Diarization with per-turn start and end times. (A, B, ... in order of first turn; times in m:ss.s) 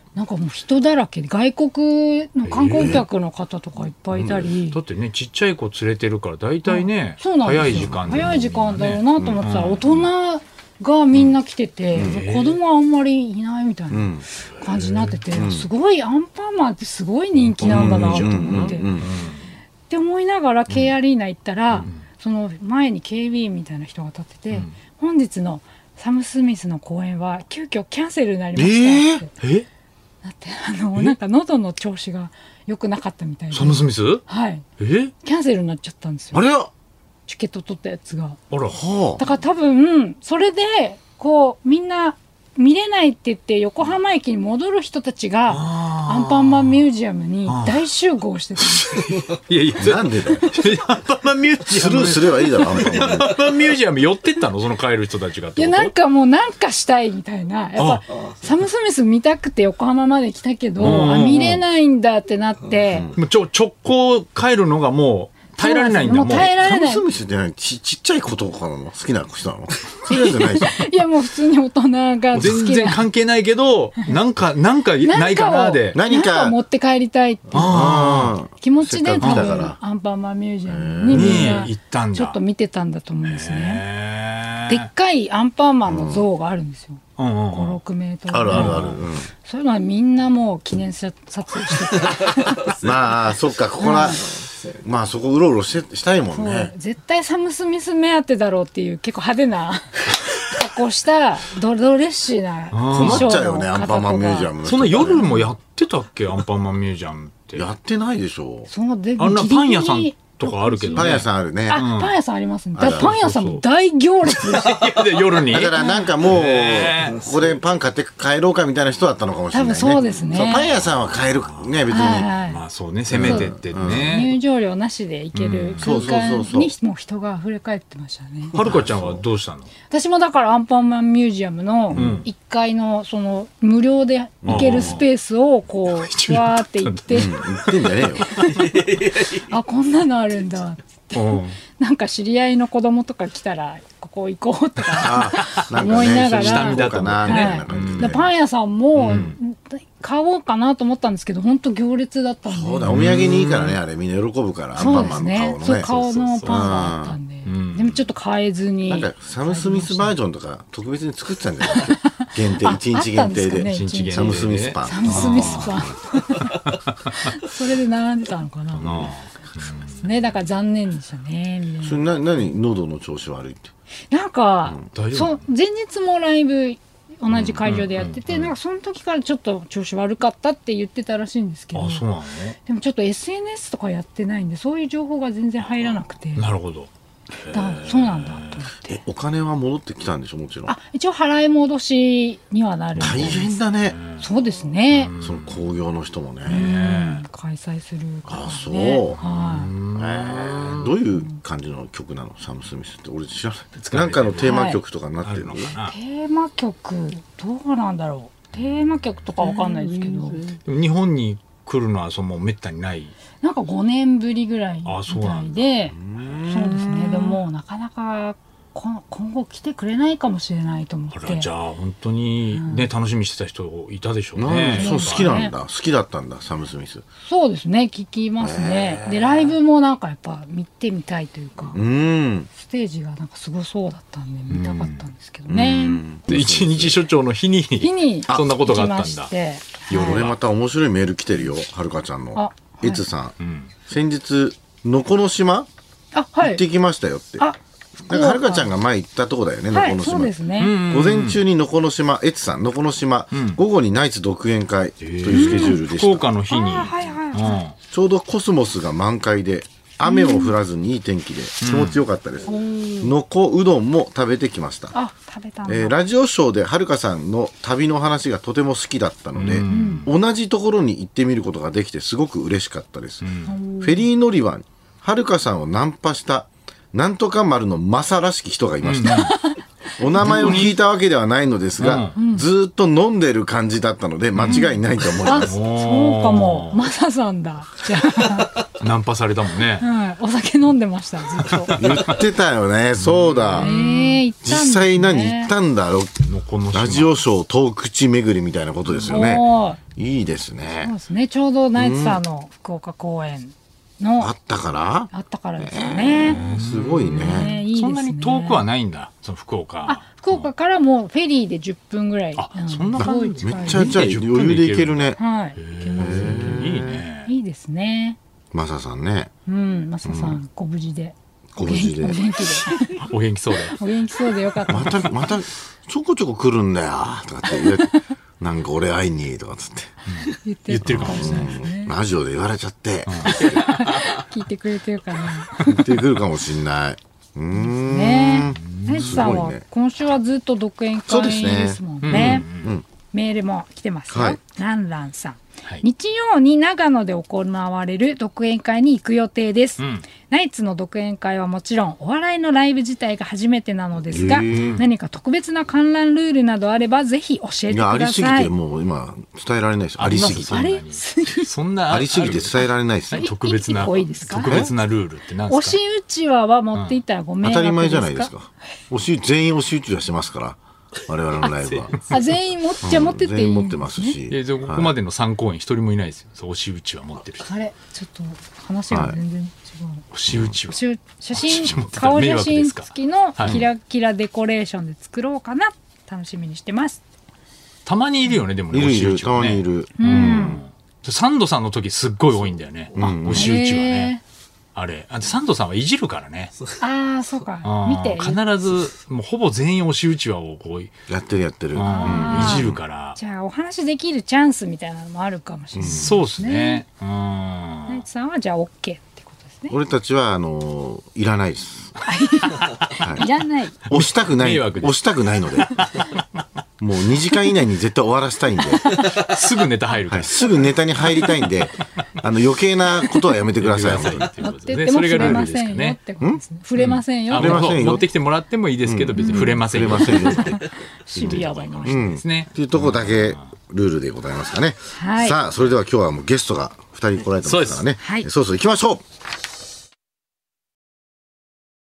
0:00.1-0:04.8 A
0:02.4-0:03.0 B
0:02.7-0:03.0 C
0:04.1-0:04.5 C
0:04.7-0:10.0 B
0:06.6-0:18.9 A
0:07.7-0:08.4 C
0:09.1-0:09.4 C
0:11.9-0:12.2 C
0:11.9-0:12.6 B
0:13.9-0:14.3 C
0:14.8-0:15.2 B
0:15.3-0:15.7 C
0:17.4-0:19.4 B
0:17.6-0:19.1 C
0:19.9-0:29.3 A
0:21.7-0:22.0 B
0:28.6-0:29.2 C
0:29.4-0:29.6 B
0:30.2-0:34.6 A
0:33.5-0:34.2 B
0:34.8-0:35.1 B
0:35.2-0:36.4 A
0:36.3-0:36.7 C
0:37.3-0:38.4 A
0:38.5-0:38.8 B
0:38.7-0:39.2 C
0:39.2-0:49.2 A
0:45.5-0:46.8 B
0:47.5-0:47.8 B
0:48.6-0:55.9 B
0:49.8-0:50.5 C
0:51.7-0:53.3 C
0:55.6-1:03.1 A
0:57.8-0:58.0 B
1:00.8-1:01.6 B
1:02.9-1:03.2 C
1:03.1-1:06.5 B
1:05.6-1:07.0 A
1:06.4-1:10.8 C
1:10.1-1:13.0 A
1:12.3-1:16.0 B
1:15.0-1:18.0 A
1:15.9-1:16.6 C
1:17.5-1:18.4 B
1:17.5-1:19.8 C
1:18.5-1:23.8 A
1:19.2-1:19.7 B
1:20.6-1:21.7 C
1:21.1-1:22.4 B
1:23.2-1:24.9 B
1:24.7-1:32.7 A
1:25.8-1:26.2 C
1:27.2-1:27.8 B
1:28.3-1:29.3 C
1:28.5-1:29.0 B
1:32.7-1:36.7 C
1:33.8-1:34.2 A
1:36.3-1:44.5 A
1:42.7-1:43.3 B
1:42.9-1:45.5 C
1:44.6-1:47.6 B
1:47.5-1:48.7 C
1:48.7-1:56.1 A
1:49.2-1:52.2 B
1:50.9-1:51.8 C
1:52.7-1:53.6 B
1:52.8-1:53.2 C
1:54.2-1:57.3 B
1:55.5-2:02.3 C
1:59.5-2:00.7 A
2:00.7-2:01.9 B
2:01.9-2:02.6 A
2:02.4-2:04.4 B
2:03.1-2:04.1 C
2:03.2-2:08.6 A
2:05.3-2:06.1 B
2:05.8-2:06.7 C
2:08.5-2:09.7 B
2:08.5-2:09.2 C
2:09.9-2:17.3 A
2:11.9-2:12.2 C
2:11.9-2:12.2 B
2:14.4-2:15.0 C
2:14.4-2:15.0 B
2:15.9-2:17.3 B
2:17.1-2:18.2 C
2:17.9-2:19.0 B
2:19.4-2:33.0 A
2:21.1-2:21.6 B
2:25.0-2:28.3 C
2:26.3-2:28.2 B
2:29.0-2:29.2 C
2:29.0-2:29.4 B
2:32.4-2:37.2 C
2:32.9-2:33.8 B
2:34.7-2:40.2 A
2:36.0-2:36.6 B
2:37.4-2:38.0 B
2:38.9-2:46.0 C
2:41.7-2:49.1 A
2:43.7-2:45.9 B
2:46.6-2:47.2 B
2:48.7-2:50.0 B
2:49.8-2:52.0 A
2:51.8-2:53.7 C
2:54.1-3:02.0 A
2:54.9-2:55.4 B
2:57.6-2:58.5 B
3:01.7-3:02.6 B
3:02.6-3:06.5 A
3:06.3-3:06.9 B
3:07.4-3:08.5 B
3:07.4-3:09.0 A
3:08.8-3:10.7 C
3:10.7-3:13.5 A
3:12.9-3:14.3 B
3:13.0-3:14.0 C
3:14.2-3:15.2 A
3:14.9-3:15.6 B
3:15.2-3:16.6 C
3:16.4-3:19.7 A
3:16.5-3:17.2 B
3:18.3-3:19.2 C
3:19.2-3:21.0 B
3:19.8-3:25.8 C
3:23.8-3:24.7 B
3:24.4-3:24.8 A
3:25.2-3:25.9 B
3:25.8-3:30.5 A
3:30.5-3:33.1 B
3:33.4-3:41.5 A
3:34.8-3:35.6 B
3:35.9-3:36.8 C
3:36.2-3:37.4 B
3:41.1-3:45.3 B
3:42.5-3:42.9 A
3:44.4-3:47.0 C
3:44.7-3:45.5 A
3:47.2-3:51.8 A
3:48.4-3:49.5 C
3:51.7-3:52.5 C
3:52.5-3:56.0 A
3:54.5-3:55.0 B
3:55.5-3:57.0 C
3:56.3-3:59.3 B
3:57.8-4:00.3 A
3:58.3-3:58.5 C
3:59.9-4:00.4 B
3:59.9-4:03.3 C
4:02.3-4:03.0 A
4:03.4-4:03.7 B
4:03.9-4:05.7 C
4:06.1-4:06.6 A
4:06.4-4:07.5 C
4:07.4-4:08.7 A
4:08.0-4:16.3 C
4:09.7-4:10.8 A
4:10.6-4:11.4 B
4:13.3-4:13.6 B
4:15.0-4:17.8 B
4:15.3-4:15.8 A
4:16.5-4:17.6 A
4:17.9-4:24.9 C
4:20.0-4:20.5 A
4:21.6-4:22.0 B
4:22.4-4:23.1 A
4:24.9-4:26.0 A
4:25.6-4:39.2 C
4:29.3-4:30.1 B
4:29.7-4:30.1 A
4:33.2-4:33.5 B
4:33.4-4:34.0 A
4:38.8-4:39.3 B
4:39.0-4:40.7 A
4:40.0-4:45.6 C
4:40.2-4:40.7 B
4:41.8-4:42.2 B
4:42.1-4:42.5 A
4:44.3-4:44.7 B
4:44.5-4:48.6 A
4:45.3-4:46.8 B
4:48.7-4:49.8 B
4:49.8-4:52.1 A
4:51.7-4:53.8 C
4:51.7-4:52.2 B
4:53.0-4:54.2 B
4:53.6-4:55.5 A
4:54.4-5:00.9 C
4:56.2-4:57.2 B
4:59.0-4:59.8 A
5:00.8-5:04.3 A
5:01.7-5:02.2 C
5:04.2-5:07.5 C
5:05.1-5:06.5 A
5:06.2-5:10.5 B
5:07.1-5:08.6 A
5:09.8-5:14.0 A
5:12.4-5:17.3 B
5:13.0-5:15.2 C
5:15.2-5:16.6 A
5:16.0-5:17.0 C
5:17.2-5:18.2 A
5:18.5-5:19.3 C
5:19.4-5:23.0 A
5:20.0-5:20.4 C
5:21.5-5:22.3 C
5:22.9-5:23.8 B
5:23.6-5:25.2 A
5:24.7-5:29.9 C
5:27.5-5:28.0 A
5:30.1-5:31.5 B
5:30.3-5:31.9 A
5:30.8-5:33.6 C
5:33.1-5:33.5 B
5:33.2-5:35.8 A
5:35.6-5:39.6 C
5:37.5-5:42.5 A
5:38.5-5:39.3 B
5:41.1-5:42.8 C
5:42.0-5:42.7 B
5:43.1-5:58.5 A
5:44.1-5:44.4 C
5:49.8-5:50.0 B
5:54.1-5:54.8 C
5:54.5-5:54.8 B
5:57.7-6:00.6 C
6:00.0-6:05.8 B
6:00.4-6:01.5 A
6:01.9-6:03.3 C
6:03.1-6:04.7 A
6:04.4-6:04.7 C
6:05.5-6:08.3 A
6:06.7-6:07.0 B
6:07.4-6:12.0 C
6:11.4-6:14.2 A
6:12.8-6:14.9 C
6:14.3-6:17.5 B
6:17.4-6:20.0 A
6:18.9-6:19.2 C
6:20.1-6:20.8 B
6:20.3-6:20.6 C
6:20.7-6:27.0 A
6:21.3-6:23.6 B
6:27.8-6:34.1 B
6:28.7-6:30.6 C
6:30.0-6:30.6 A
6:33.0-6:33.6 C
6:33.3-6:34.2 A
6:34.7-6:36.5 B
6:36.8-6:38.5 A
6:37.6-6:40.9 B
6:41.1-6:42.8 C
6:41.7-6:43.2 B
6:41.8-6:46.8 A
6:45.7-6:46.2 C
6:45.8-6:48.0 B
6:47.9-6:49.8 A
6:49.7-6:51.9 C
6:52.0-6:53.8 A
6:53.0-6:53.3 C
6:53.8-6:55.8 C
6:53.9-6:56.2 B
6:56.8-6:58.9 C
6:58.9-7:00.7 B
7:00.1-7:04.3 C
7:03.6-7:06.0 B
7:04.4-7:07.9 A
7:05.1-7:05.4 C
7:06.8-7:10.6 B
7:07.3-7:08.1 C
7:08.8-7:19.0 C
7:09.1-7:12.0 A
7:11.2-7:13.4 B
7:14.9-7:15.4 A
7:17.4-7:17.9 B
7:18.0-7:18.3 A